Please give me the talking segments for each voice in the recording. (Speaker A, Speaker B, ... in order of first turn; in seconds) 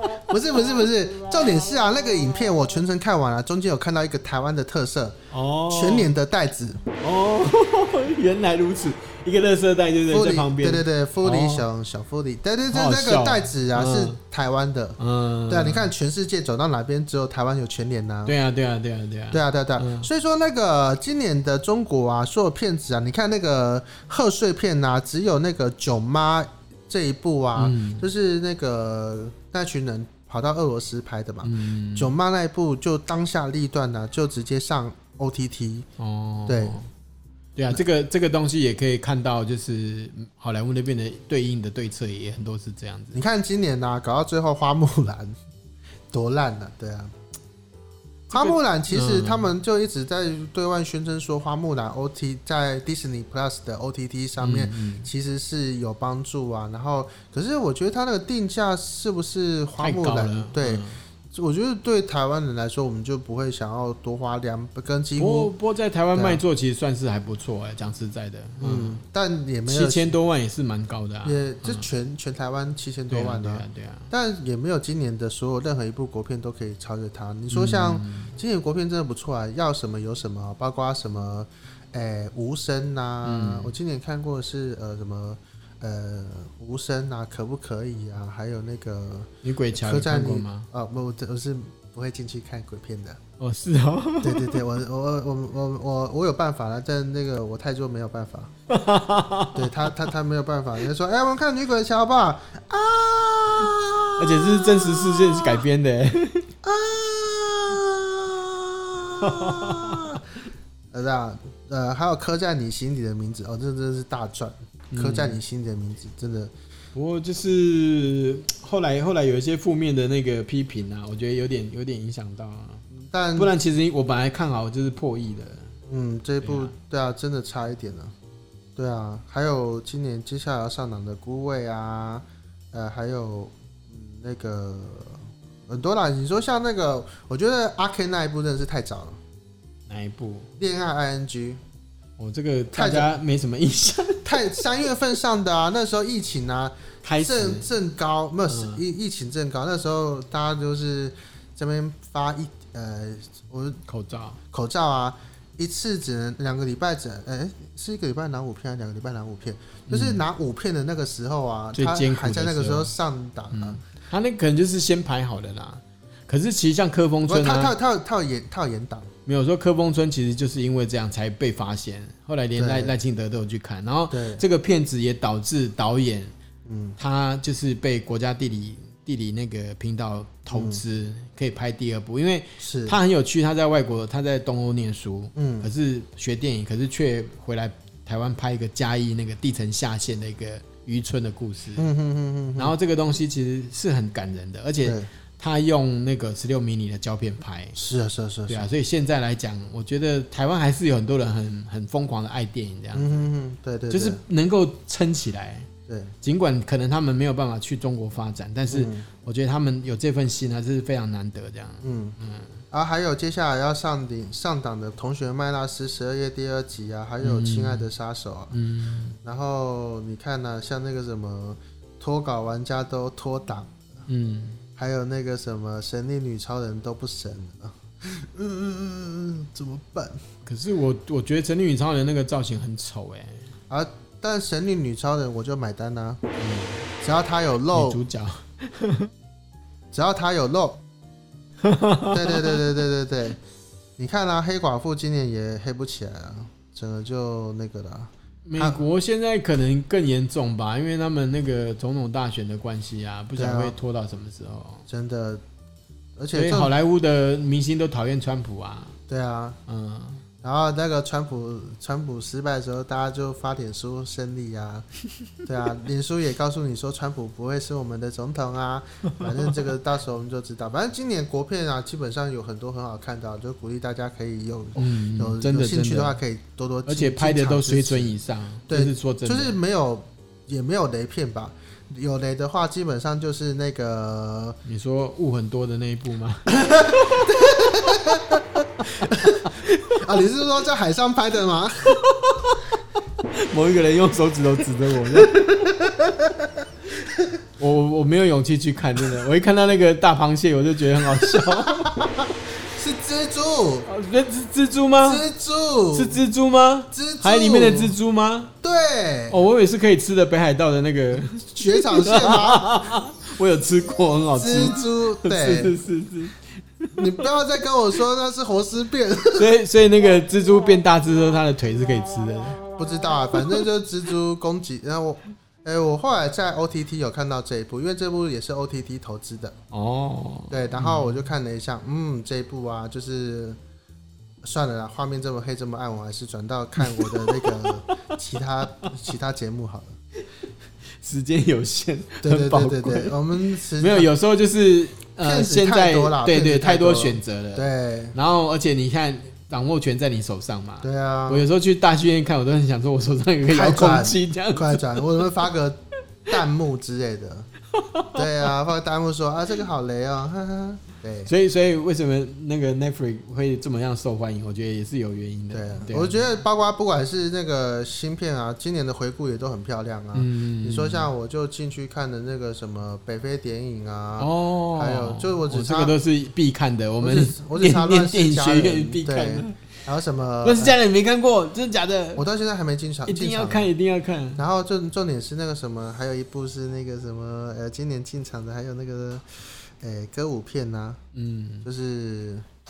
Speaker A: 0.3-5.2, 5.7-6.9, 10.1-15.0, 15.5-18.3, 19.3-35.9, 36.5-36.7, 43.1-45.4, 46.1-47.1, 48.3-65.5, 66.1-66.4, 68.6-70.1, 71.2-93.2, 94.2-98.5, 99.5-105.6, 106.6-110.2, 110.9-116.5, 122.9-123.5, 125.9-128.1, 128.8-139.2, 140.6-141.6, 142.7-143.1, 144.2-153.8, 154.5-163.8, 167.2-169.1, 172.6-172.9, 174.1-174.4, 176.7-176.9, 180.5-180.8, 182.6-183.0, 185.3-185.7, 191.8-192.7, 197.8-198.7, 202.9-204.2, 205.9-206.1, 208.7-209.1, 211.8-212.2, 212.7-218.5, 219.2-223.8, 224.8-230.2, 233.7-236.2, 237.0-238.0, 239.9-240.8, 242.1-243.4, 244.0-248.8, 253.3-253.7, 254.9-255.4, 256.2-256.7, 259.1-259.6, 260.4-264.9, 265.4-278.1, 278.7-284.6, 286.5-292.1, 295.1-296.6, 301.1-303.9, 305.0-306.2, 306.9-307.9, 308.6-309.4, 311.5-312.9, 314.4-315.8, 316.9-319.5, 322.8-329.5, 330.5-333.6, 334.4-339.9, 342.2-344.1, 345.2-348.1, 350.8-351.4, 353.5-357.5, 358.1-361.3, 365.5-375.9, 377.0-380.8, 382.1-383.7, 384.4-391.0, 391.6-392.4
Speaker B: 5.3-6.1, 7.0-11.6, 12.7-14.2, 15.0-15.9, 18.2-20.1, 27.6-28.1, 31.4-32.1, 36.0-36.9, 37.5-43.2, 48.3-49.5, 54.4-55.1, 59.8-61.0, 65.2-69.0, 69.7-71.9, 73.1-74.1, 77.5-78.4, 83.2-83.8, 89.4-90.7, 93.4-94.6, 98.7-99.9, 104.2-106.5, 109.2-110.2, 114.9-115.4, 116.9-122.8, 123.3-125.7, 126.4-126.7, 139.9-140.5, 142.2-144.7, 147.0-147.7, 148.5-148.8, 153.9-154.4, 159.9-160.2, 161.7-162.9, 163.5-167.7, 169.2-176.3, 177.0-191.9, 192.6-197.8, 198.5-203.3, 203.9-205.7, 206.2-212.6, 217.2-217.9, 218.5-219.2, 224.1-224.6, 230.4-233.5, 236.4-236.9, 237.7-239.1, 241.6-242.8, 248.4-254.8, 256.3-258.9, 259.7-260.2, 274.8-276.2, 276.9-279.6, 284.6-287.2, 288.8-290.2, 292.0-292.7, 293.3-295.8, 297.6-302.0, 303.9-305.2, 305.9-308.5, 309.3-317.3, 319.3-322.6, 323.4-323.6, 329.7-331.2, 336.8-338.1, 341.0-355.2, 357.8-358.5, 361.3-366.2, 370.1-371.1, 374.2-379.8, 380.4-382.2, 383.1-384.4, 391.1-391.7